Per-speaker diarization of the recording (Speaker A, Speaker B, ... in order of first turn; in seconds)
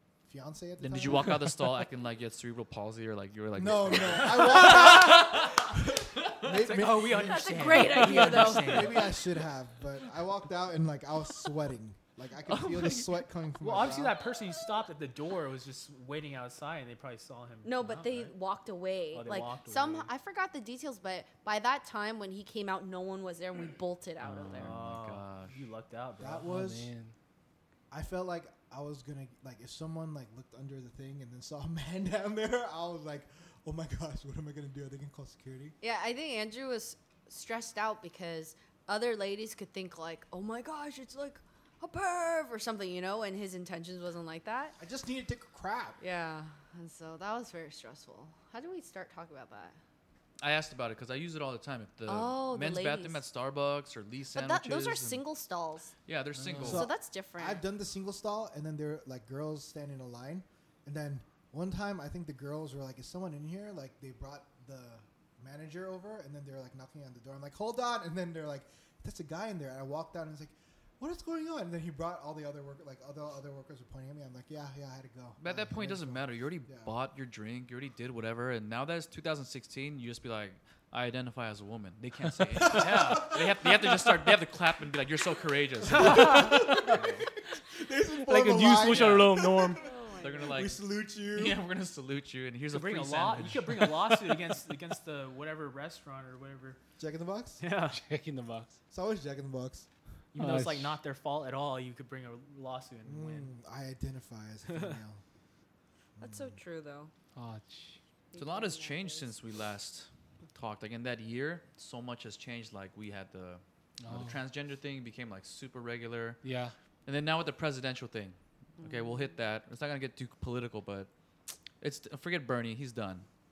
Speaker A: 0.2-1.6, 3.5-7.4, 8.6-14.2, 26.2-26.9, 27.9-35.8, 44.8-46.0, 56.6-76.9, 82.5-84.3, 86.0-91.6, 97.0-97.6, 98.9-99.9, 103.0-105.2, 106.2-106.6
Speaker B: 0.8-6.2, 12.4-13.3, 24.2-25.6, 50.4-55.2, 56.0-56.9, 75.4-87.2, 88.8-89.4, 90.2-94.3, 108.3-116.4, 117.0-121.1, 121.8-123.2
Speaker C: 4.3-5.3, 6.4-9.1, 13.6-18.3, 19.1-20.1, 24.5-26.6, 82.6-83.4, 92.7-96.8, 97.6-98.0, 100.3-103.5, 104.7-105.0
Speaker D: 7.0-9.2, 17.6-24.8, 35.8-44.8, 46.0-49.8, 52.0-53.2, 54.3-55.9, 56.6-57.6, 89.8-90.4, 106.2-107.1, 108.3-109.3, 118.8-119.3
Speaker E: 26.4-27.1, 88.2-89.8, 97.9-98.7, 100.4-101.0, 107.3-108.0, 114.0-114.4, 116.4-116.7